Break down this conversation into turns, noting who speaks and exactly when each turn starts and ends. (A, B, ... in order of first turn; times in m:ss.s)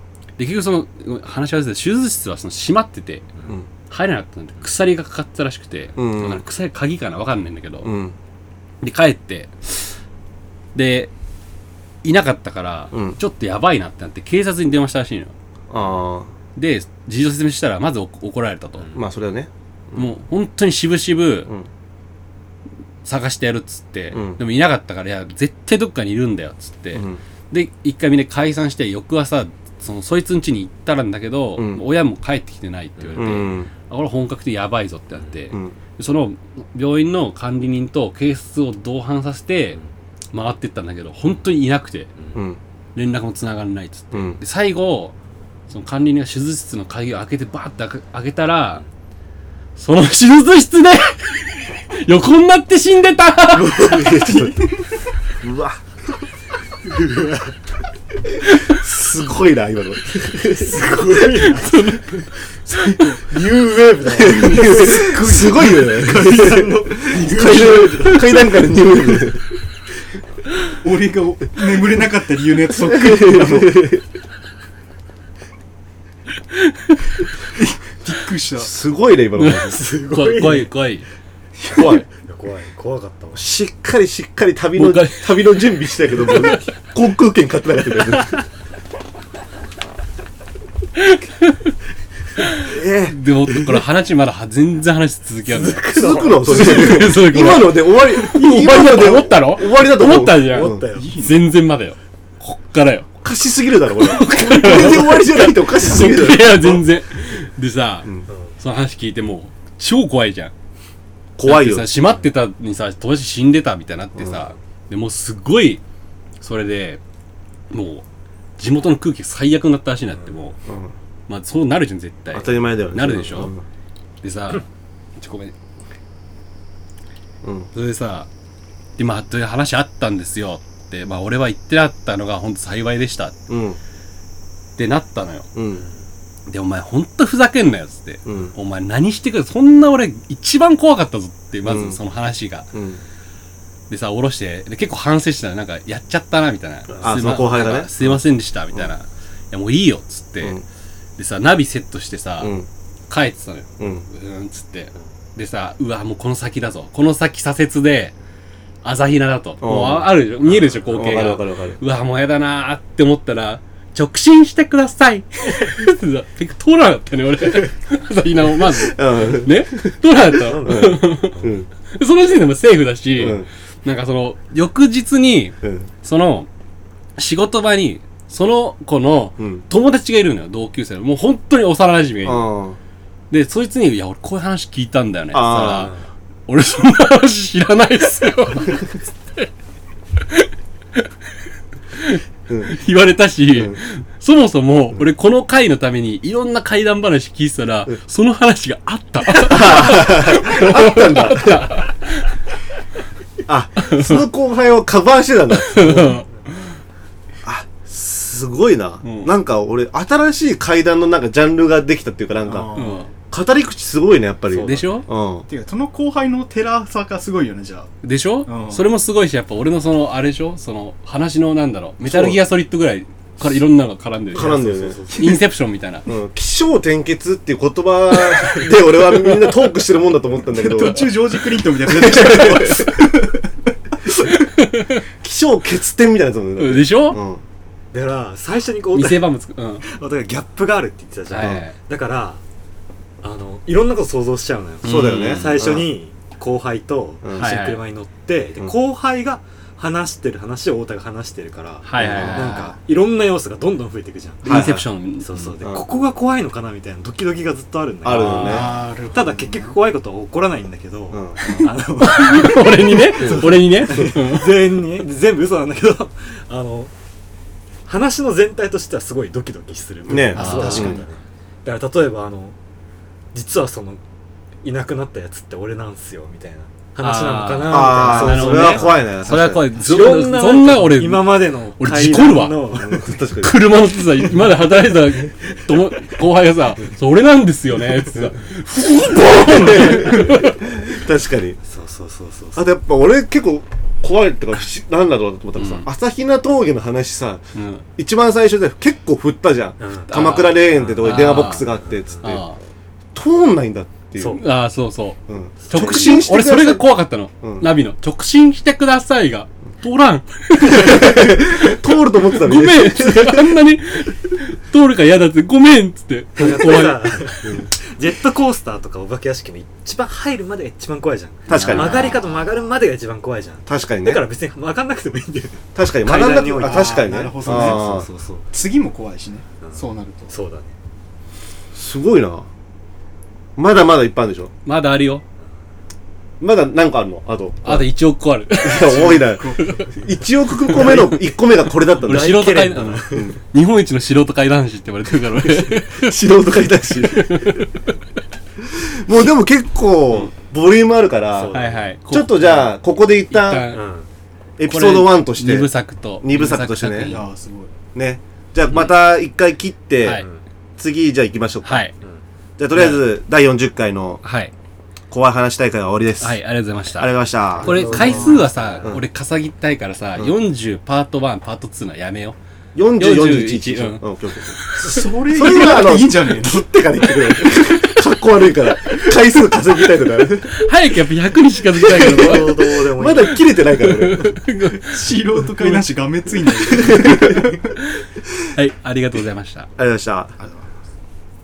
0:00.4-0:03.3 A
0:03.9-0:07.9 A
0:06.0-0:06.4 B
0:07.8-0:08.2 B
0:08.8-0:10.0 A
0:10.8-0:11.1 A
0:12.0-0:15.3 A
0:12.9-0:13.2 B
0:15.7-0:16.3 B
0:16.6-0:18.9 A
0:18.9-0:20.1 B
0:19.9-0:21.5 A
0:23.0-0:39.8 A
0:24.1-0:24.4 B
0:26.9-0:27.2 B
0:31.6-0:31.8 B
0:33.0-0:33.3 C
0:33.2-0:33.7 B
0:40.3-0:42.1 A
0:42.2-0:42.4 C
0:42.3-0:42.6 B
0:43.0-0:45.1 A
0:44.1-0:44.4 B
0:45.7-0:48.8 A
0:49.8-0:54.1 A
0:53.5-0:54.7 C
0:53.8-0:54.7 B
0:55.4-0:55.8 B
0:56.8-0:57.6 C
0:58.6-1:00.9 B
1:00.2-1:01.9 C
1:01.3-1:02.3 A
1:02.7-1:03.4 D
1:03.3-1:08.6 C
1:04.2-1:06.1 D
1:04.2-1:09.4 B
1:07.2-1:07.7 D
1:10.8-1:13.8 D
1:12.7-1:14.0 B
1:16.5-1:17.1 A
1:17.5-1:18.7 D
1:18.6-1:19.8 B
1:19.4-1:21.1 A
1:19.6-1:20.7 C
1:21.7-1:22.0 B
1:21.8-1:23.4 C
1:23.3-1:28.4 B
1:24.8-1:25.6 A
1:31.0-1:31.7 A
1:32.4-1:43.1 A
1:32.6-1:33.2 B
1:35.6-1:36.9 C
1:35.9-1:40.9 B
1:40.4-1:41.2 C
1:40.9-1:41.4 D
1:43.2-1:46.8 B
1:44.0-1:50.5 A
1:48.3-1:48.5 C
1:51.4-1:51.9 B
1:51.4-1:55.8 A
1:56.4-1:57.0 A
1:57.7-1:58.0 A
1:58.6-2:00.6 A
2:00.7-2:00.9 B
2:01.3-2:03.5 A
2:02.3-2:03.6 B
2:04.2-2:04.6 A
2:05.2-2:05.5 A
2:07.4-2:07.7 B
2:07.7-2:08.3 A
2:09.0-2:13.4 A
2:13.5-2:13.8 B
2:14.8-2:15.5 A
2:15.6-2:15.8 B
2:16.5-2:22.7 A
2:18.2-2:18.6 B
2:21.6-2:22.0 B
2:22.7-2:23.0 B
2:23.9-2:30.6 A
2:27.0-2:28.2 B
2:31.2-2:32.6 A
2:32.4-2:32.7 B
2:33.1-2:38.1 A
2:33.8-2:34.0 B
2:38.8-2:56.5 A
2:39.6-2:41.8 B
2:48.8-2:50.0 B
2:50.5-2:51.5 C
2:50.5-2:51.7 B
2:53.2-2:53.5 B
2:55.6-2:55.9 B
2:57.2-3:02.5 A
2:59.4-2:59.6 B
3:02.2-3:02.8 B
3:03.3-3:05.9 A
3:05.3-3:05.9 B
3:06.5-3:09.5 A
3:10.3-3:11.1 A
3:11.9-3:22.3 A
3:19.4-3:21.8 B
3:23.5-3:26.2 B
3:23.8-3:24.2 A
3:25.6-3:26.7 A
3:27.4-3:32.7 B
3:29.0-3:29.3 A
3:32.5-3:33.1 D
3:32.8-3:33.1 A
3:33.3-3:35.5 B
3:34.5-3:35.1 A
3:35.5-3:37.9 D
3:38.0-3:46.1 A
3:38.5-3:38.9 D
3:42.0-3:42.4 B
3:44.3-3:45.0 B
3:44.3-3:45.4 C
3:45.2-3:45.4 D
3:46.1-3:51.1 B
3:50.5-3:53.5 D
3:51.8-3:53.0 B
3:54.3-3:55.0 A
3:55.2-3:57.4 B
3:56.6-3:57.2 A
3:57.9-3:59.3 C
3:58.9-3:59.8 A
3:59.8-4:02.4 C
4:01.3-4:01.8 A
4:03.2-4:14.6 C
4:04.8-4:05.6 A
4:04.8-4:05.9 B
4:07.2-4:07.5 B
4:07.4-4:07.8 A
4:11.8-4:12.7 A
4:12.0-4:12.6 B
4:12.4-4:12.8 D
4:14.4-4:14.9 B
4:14.4-4:15.5 A
4:15.2-4:26.9 C
4:18.0-4:18.7 B
4:18.2-4:19.8 D
4:21.1-4:21.4 B
4:21.4-4:24.7 A
4:23.2-4:23.5 B
4:27.9-4:32.6 C
4:30.1-4:31.0 B
4:30.3-4:31.0 A
4:30.4-4:31.0 D
4:33.3-4:34.0 C
4:34.6-4:43.2 C
4:37.0-4:42.6 A
4:37.7-4:39.7 B
4:42.8-4:43.6 B
4:43.4-4:50.7 A
4:49.1-4:51.6 B
4:51.6-4:52.7 C
4:52.6-4:57.4 B
4:55.6-4:55.9 A
4:57.6-4:57.8 A
4:58.0-5:02.4 B
4:59.8-5:02.4 C
5:00.1-5:01.7 A
5:02.2-5:02.6 A
5:03.2-5:04.4 B
5:04.2-5:04.4 C
5:04.2-5:05.2 A
5:05.3-5:06.8 B
5:05.6-5:06.2 C
5:05.7-5:11.8 A
5:07.4-5:07.7 B
5:10.7-5:13.6 B
5:12.4-5:17.3 A
5:16.4-5:28.5 C
5:21.5-5:22.2 B
5:21.5-5:22.1 A
5:23.7-5:24.2 B
5:25.8-5:28.1 B
5:26.3-5:27.8 D
5:28.5-5:30.4 D
5:29.6-5:30.7 C
5:31.7-5:32.5 B
5:33.6-5:34.5 B
5:34.6-5:35.2 A
5:36.4-5:37.9 B
5:37.6-5:39.8 A
5:38.6-5:42.5 B
5:38.9-5:39.9 D
5:40.7-5:41.2 A
5:40.8-5:41.0 C
5:42.0-5:46.2 A
5:42.0-5:43.4 C
5:43.1-5:43.4 B
5:45.8-5:47.6 B
5:47.0-5:48.0 A
5:48.7-5:51.6 B
5:51.3-5:51.9 C
5:51.5-5:52.8 A
5:52.1-5:53.7 B
5:53.3-5:53.8 A
5:53.7-5:54.1 C
5:54.6-5:55.7 B
5:54.7-5:57.2 A
5:56.2-5:57.2 B
5:57.1-5:57.7 D
5:58.0-6:00.2 B
6:00.1-6:00.4 C
6:00.8-6:01.9 B
6:01.6-6:01.9 A
6:02.6-6:04.2 B
6:02.7-6:03.1 A
6:04.2-6:04.5 A
6:05.1-6:06.4 B
6:06.2-6:12.4 A
6:07.0-6:08.0 B
6:07.6-6:09.0 C
6:07.9-6:08.5 D
6:12.8-6:14.6 B
6:13.0-6:15.0 A
6:14.8-6:16.6 D
6:15.3-6:20.6 B
6:20.4-6:22.6 A
6:21.8-6:24.3 B
6:21.9-6:23.4 C
6:23.8-6:25.9 A
6:24.9-6:27.8 D
6:26.4-6:26.8 A
6:26.8-6:27.5 B
6:27.8-6:29.7 A
6:29.8-6:30.4 B
6:30.4-6:30.7 D